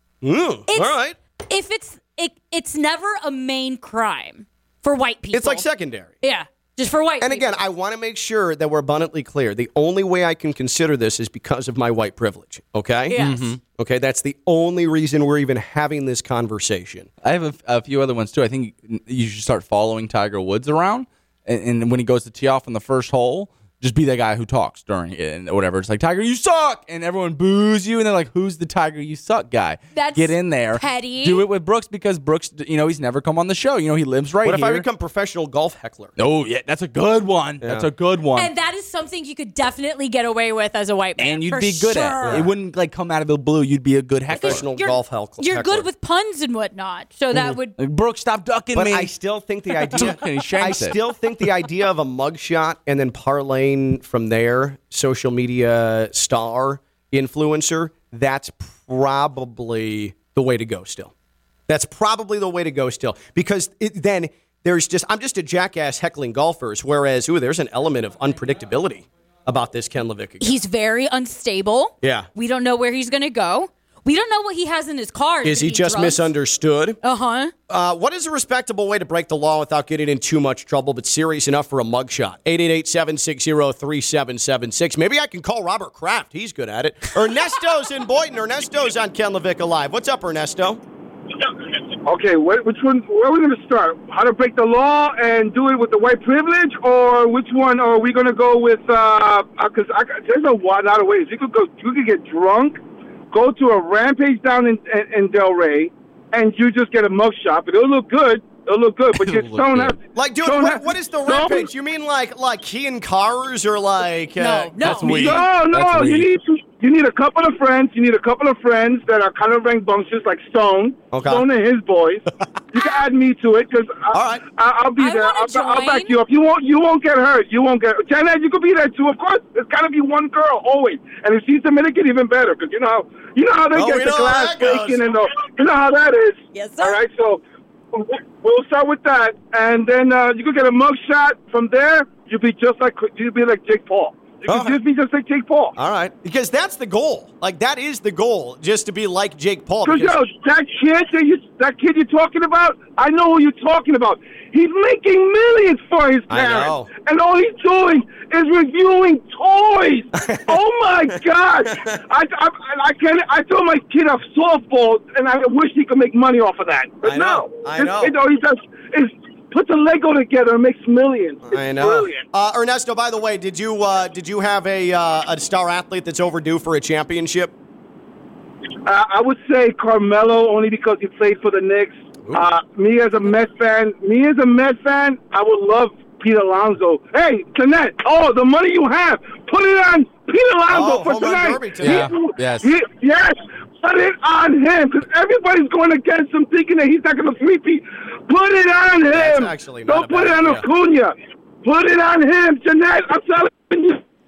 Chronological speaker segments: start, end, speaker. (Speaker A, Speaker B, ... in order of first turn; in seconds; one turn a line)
Speaker A: 0.2-1.2
Speaker B: 0.7-5.7
Speaker A: 5.3-6.2
Speaker B: 6.2-7.5
Speaker A: 7.2-17.1
Speaker B: 13.1-13.5
Speaker C: 13.1-13.6
Speaker C: 17.2-34.9
Speaker B: 29.9-31.4
Speaker A: 34.4-36.1
Speaker C: 36.2-38.5
Speaker A: 37.6-37.9
Speaker B: 38.3-42.5
Speaker C: 41.2-44.6
Speaker A: 42.2-42.5
Speaker B: 44.3-47.8
Speaker A: 44.3-45.9
Speaker C: 47.8-49.1
Speaker A: 48.7-61.1
Speaker C: 49.9-51.0
Speaker A: 61.7-70.6
Speaker B: 70.4-76.2
Speaker A: 72.0-72.3
Speaker A: 75.4-77.0
Speaker B: 77.0-77.5
Speaker A: 77.7-90.8
Speaker D: 92.0-102.8
Speaker D: 103.3-111.7
Speaker C: 109.1-110.0
Speaker A: 110.1-115.4
Speaker B: 114.4-115.3
Speaker C: 114.8-116.3
Speaker D: 115.2-137.4
Speaker A: 121.1-121.4
Speaker B: 122.8-123.0
Speaker A: 124.1-124.4
Speaker B: 125.0-126.2
Speaker A: 133.7-135.0
Speaker B: 136.5-137.0
Speaker D: 137.9-145.7
Speaker A: 144.5-144.8
Speaker A: 145.8-150.2
Speaker D: 149.8-172.2
Speaker A: 156.3-156.9
Speaker A: 160.2-160.6
Speaker A: 161.7-162.0
Speaker A: 167.0-168.1
Speaker A: 171.5-177.5
Speaker D: 178.8-204.0
Speaker A: 190.7-192.1
Speaker C: 191.8-192.7
Speaker A: 199.1-200.7